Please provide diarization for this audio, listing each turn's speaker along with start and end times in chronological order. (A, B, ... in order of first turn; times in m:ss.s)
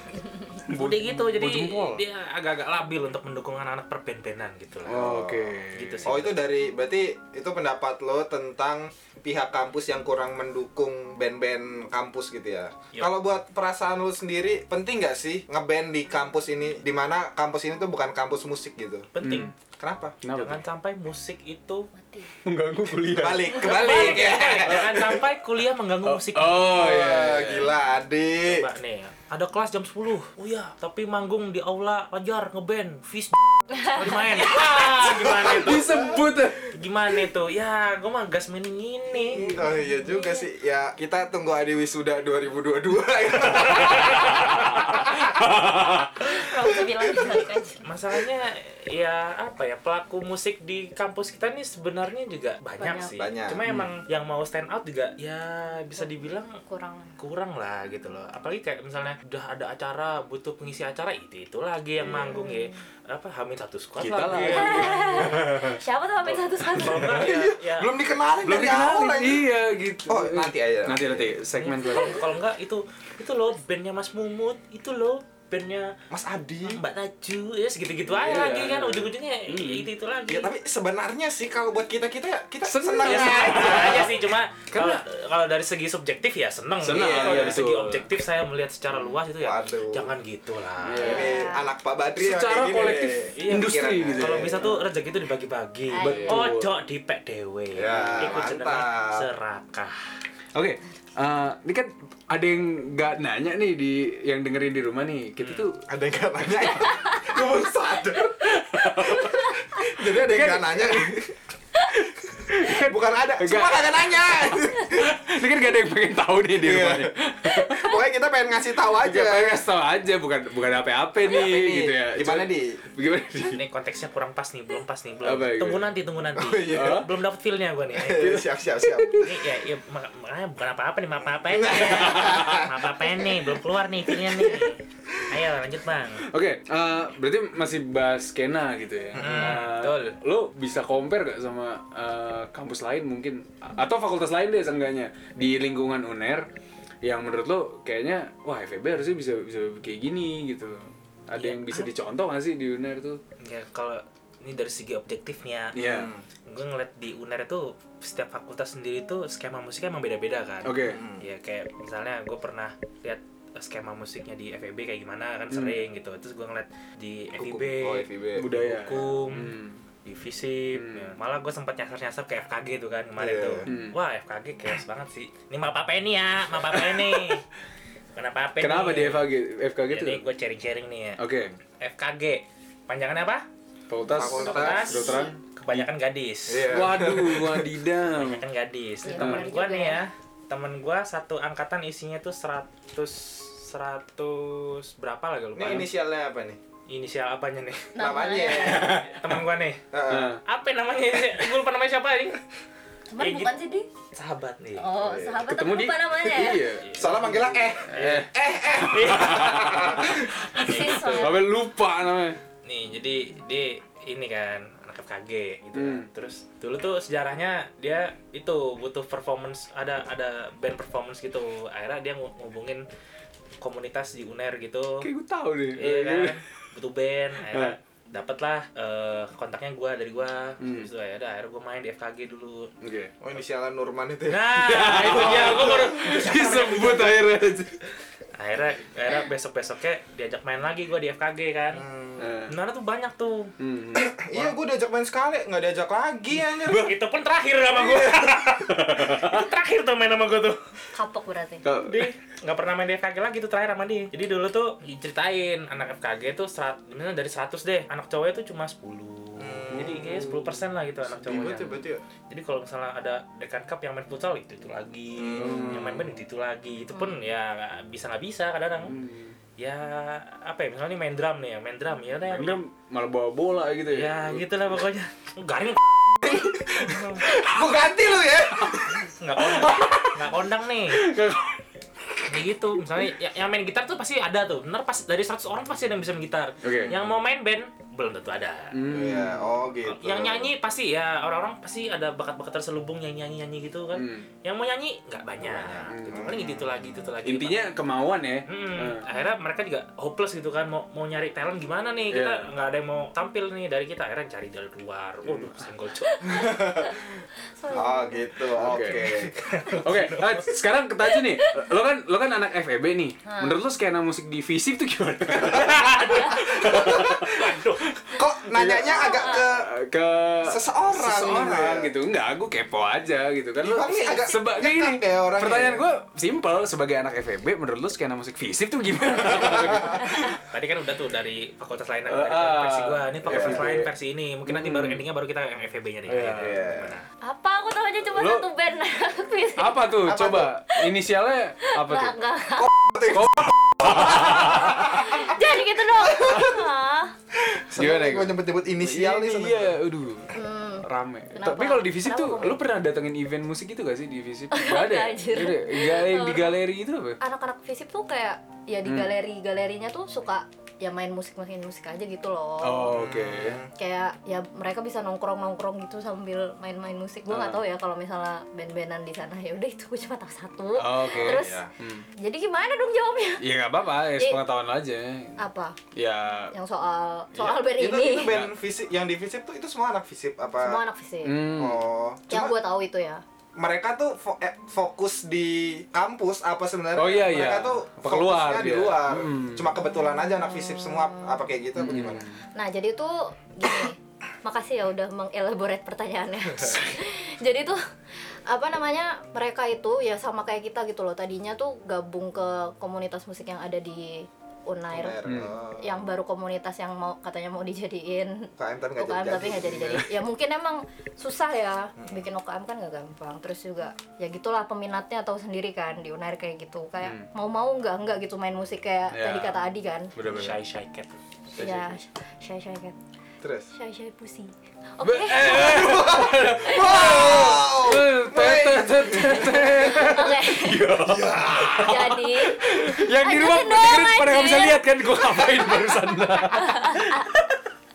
0:00.7-0:02.0 A
0:00.7-0:06.3 B
0:04.8-0:06.2 A
0:04.9-0:05.5 C
0:06.0-0:19.1 C
0:19.1-0:19.5 B
0:19.2-0:19.5 A
0:19.8-0:20.2 C
0:20.2-0:20.6 A
0:20.3-0:21.9 B
0:21.9-0:22.3 D
0:22.4-0:25.2 A
0:23.1-0:25.1 C
0:23.4-0:26.8 B
0:26.0-0:27.7 A
0:26.6-0:28.7 C
0:28.5-0:39.5 B
0:34.4-0:36.8 A
0:34.8-0:35.9 C
0:39.3-0:40.4 D
0:39.4-0:45.0 C
0:43.6-0:46.1 A
0:46.2-0:47.8 D
0:47.8-0:56.6 B
0:52.8-0:53.1 D
0:53.1-0:53.6 C
0:56.6-0:57.2 D
0:57.2-1:05.4 B
1:02.0-1:02.3 A
1:02.3-1:02.8 D
1:04.0-1:05.8 A
1:04.4-1:07.2 D
1:06.7-1:07.9 B
1:06.8-1:07.3 A
1:07.1-1:09.4 C
1:08.4-1:12.3 A
1:10.1-1:11.3 C
1:11.5-1:15.9 B
1:16.1-1:16.8 C
1:16.6-1:20.5 B
1:18.0-1:19.9 A
1:20.3-1:24.1 C
1:22.6-1:24.2 A
1:23.0-1:31.3 B
1:24.7-1:25.0 A
1:26.8-1:28.0 A
1:27.0-1:27.6 C
1:29.4-1:30.1 C
1:30.8-1:31.4 A
1:31.0-1:34.8 C
1:31.0-1:31.7 D
1:32.2-1:34.8 A
1:33.4-1:40.0 B
1:35.9-1:36.4 D
1:36.0-1:36.7 A
1:37.7-1:39.2 C
1:37.9-1:38.4 A
1:40.5-1:45.8 A
1:45.4-1:45.7 B
1:45.9-1:51.4 C
1:48.2-1:51.1 A
1:51.8-1:58.0 A
1:52.5-1:55.2 C
1:56.6-1:59.6 C
1:58.9-2:03.6 A
2:01.3-2:02.8 C
2:03.5-2:08.4 B
2:05.2-2:05.9 A
2:06.4-2:07.1 C
2:06.7-2:07.1 A
2:07.9-2:09.5 C
2:09.1-2:16.3 B
2:11.5-2:12.8 C
2:11.9-2:12.6 A
2:14.3-2:14.7 C
2:16.2-2:26.5 A
2:19.1-2:19.6 C
2:19.2-2:20.2 B
2:27.0-2:33.2 A
2:31.3-2:31.9 B
2:33.4-2:57.4 B
2:35.7-2:36.1 A
2:35.8-2:36.2 C
2:40.6-2:41.0 A
2:40.8-2:41.2 C
2:45.5-2:45.8 A
2:47.4-2:48.5 C
2:48.3-2:49.8 A
2:50.7-2:51.1 A
2:53.2-2:53.7 C
2:53.6-2:54.0 A
2:56.9-2:57.4 A
2:58.1-2:59.3 B
2:58.6-3:00.2 A
2:59.9-3:01.2 B
3:01.2-3:01.5 A
3:01.8-3:03.4 B
3:03.9-3:05.9 A
3:04.1-3:05.2 C
3:04.3-3:07.0 B
3:06.5-3:07.7 C
3:06.6-3:08.4 A
3:08.1-3:15.9 B
3:09.0-3:10.1 D
3:09.1-3:09.5 A
3:15.5-3:16.6 C
3:16.9-3:19.8 B
3:17.9-3:19.0 D
3:18.0-3:19.0 C
3:19.9-3:20.4 C
3:20.1-3:20.4 A
3:20.4-3:22.4 B
3:23.1-3:23.9 D
3:23.2-3:23.5 B
3:24.1-3:24.8 B
3:24.8-3:26.7 D
3:25.0-3:25.4 C
3:25.3-3:32.4 A
3:26.8-3:30.1 B
3:26.9-3:30.3 C
3:30.5-3:31.5 D
3:30.7-3:31.3 B
3:32.6-3:42.8 B
3:35.7-3:36.1 A
3:43.6-3:45.1 B
3:45.0-3:46.4 A
3:45.8-3:52.7 B
3:47.5-3:47.8 A
3:50.6-3:50.9 A
3:52.8-3:53.1 A
3:53.2-3:56.0 C
3:54.3-3:57.2 B
3:54.6-3:57.7 A
3:58.4-4:01.8 B
4:01.7-4:02.4 C
4:02.2-4:02.5 A
4:02.5-4:03.5 B
4:03.6-4:04.4 A
4:03.9-4:06.9 C
4:06.6-4:10.6 B
4:08.7-4:09.4 A
4:10.9-4:11.6 D
4:11.6-4:12.1 A
4:11.8-4:29.0 B
4:19.4-4:20.2 C
4:19.7-4:20.5 A
4:21.1-4:21.7 A
4:21.2-4:22.0 C
4:25.2-4:25.8 C
4:25.3-4:26.2 A
4:28.8-4:29.4 A
4:29.6-4:32.6 B
4:32.3-4:34.5 A
4:33.9-4:37.2 B
4:36.2-4:39.1 C
4:39.2-4:41.1 B
4:39.4-4:40.3 A
4:40.9-4:42.3 A
4:42.3-4:48.8 B
4:46.6-4:47.0 A
4:48.7-4:49.5 A
4:48.8-4:50.5 C
4:49.8-4:57.7 B
4:53.9-4:54.3 A
4:55.4-4:56.8 C
4:55.8-4:56.3 A
4:57.2-4:59.0 A
4:58.5-5:06.7 B
5:02.1-5:02.5 A
5:05.2-5:05.6 A
5:06.3-5:07.0 C
5:07.6-5:08.3 D
5:07.7-5:09.4 C
5:08.5-5:30.4 A
5:09.1-5:10.5 B
5:13.2-5:13.6 D
5:15.5-5:17.9 B
5:16.5-5:17.2 C
5:18.2-5:19.7 C
5:18.9-5:19.4 D
5:20.4-5:21.9 C
5:23.6-5:25.8 C
5:30.3-5:37.0 B
5:32.1-5:33.9 A
5:33.2-5:33.6 C
5:34.4-5:35.0 A
5:36.1-5:36.7 A
5:36.4-5:36.9 C
5:37.2-5:40.9 D
5:38.1-5:38.4 A
5:39.6-5:42.2 A
5:40.1-5:40.5 C
5:41.6-5:42.7 D
5:43.0-5:45.3 A
5:43.8-5:44.1 C
5:44.0-5:47.1 D
5:46.1-5:46.5 A
5:47.4-5:49.8 C
5:47.7-5:57.2 A
5:50.3-5:52.6 D
5:54.5-5:56.6 D
5:57.2-6:03.0 D
5:58.8-5:59.1 A
6:02.6-6:03.6 A
6:02.9-6:03.7 C
6:03.8-6:11.6 D
6:07.3-6:07.6 A
6:10.8-6:12.0 A
6:11.1-6:11.7 C
6:12.2-6:13.4 D
6:13.4-6:15.4 A
6:14.1-6:14.4 D
6:15.4-6:15.8 D
6:15.9-6:16.5 A
6:16.5-6:18.3 D
6:17.3-6:17.6 A
6:17.5-6:20.8 C
6:18.2-6:18.5 A
6:20.6-6:21.5 D
6:21.2-6:21.9 A
6:21.5-6:22.6 C
6:22.3-6:23.2 D
6:23.6-6:32.2 C
6:26.9-6:29.7 A
6:30.6-6:31.4 D
6:31.8-6:32.4 A
6:32.5-6:37.8 D
6:38.5-6:45.2 D
6:44.9-6:46.0 C
6:45.2-6:45.5 A
6:45.8-7:00.1 D
6:48.6-6:50.0 C
6:52.0-6:52.2 C
6:57.0-6:57.3 A
6:59.1-6:59.6 A
7:00.1-7:00.6 A
7:00.2-7:01.2 B
7:01.5-7:02.0 A
7:01.6-7:03.0 D
7:03.4-7:03.7 C
7:03.7-7:07.8 D
7:05.0-7:17.5 A
7:05.4-7:10.1 C
7:09.4-7:11.0 D
7:11.0-7:12.0 C
7:11.7-7:17.3 D